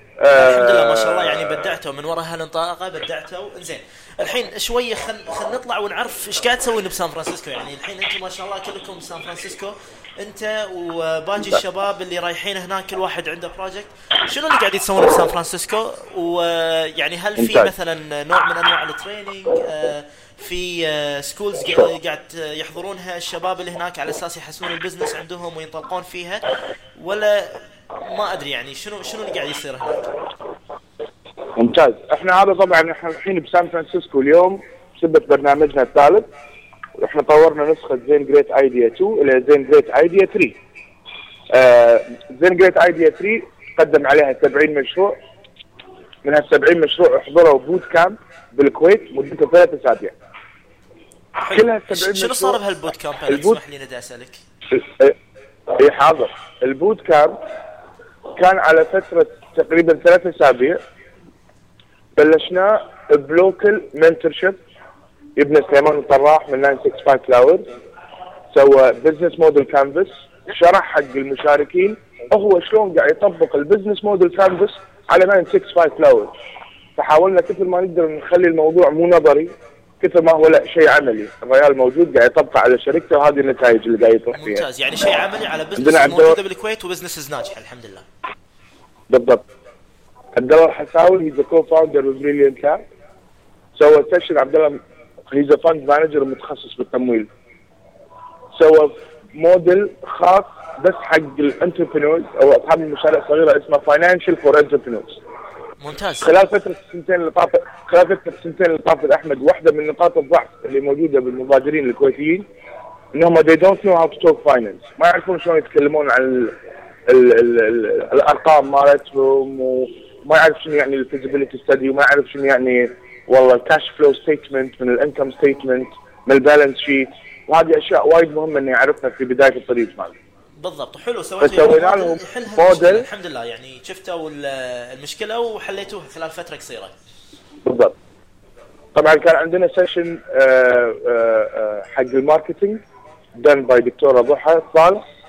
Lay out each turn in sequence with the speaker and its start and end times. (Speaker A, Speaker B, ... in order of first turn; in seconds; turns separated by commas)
Speaker A: 0.2-1.6, Speaker B: 0.3-30.2, Speaker A: 17.4-17.7, Speaker A: 31.6-36.3, Speaker A: 37.0-40.5, Speaker A: 41.5-45.1, Speaker A: 46.2-50.1, Speaker A: 51.4-52.6, Speaker B: 51.4-54.4, Speaker A: 53.3-53.6, Speaker A: 54.7-55.1, Speaker A: 55.7-57.4, Speaker A: 58.4-60.8, Speaker A: 62.2-64.6, Speaker A: 65.3-67.6, Speaker A: 68.5-76.3, Speaker A: 77.0-84.6, Speaker B: 84.3-88.0, Speaker A: 85.8-86.3, Speaker A: 89.1-89.4, Speaker A: 90.3-92.8, Speaker A: 93.8-94.8, Speaker A: 95.3-97.3, Speaker A: 98.5-105.2, Speaker B: 105.8-106.3, Speaker A: 106.2-112.5, Speaker A: 113.1-130.1, Speaker B: 130.6-136.9, Speaker A: 131.4-133.1, Speaker A: 137.6-137.9, Speaker A: 138.9-142.8, Speaker A: 143.4-145.0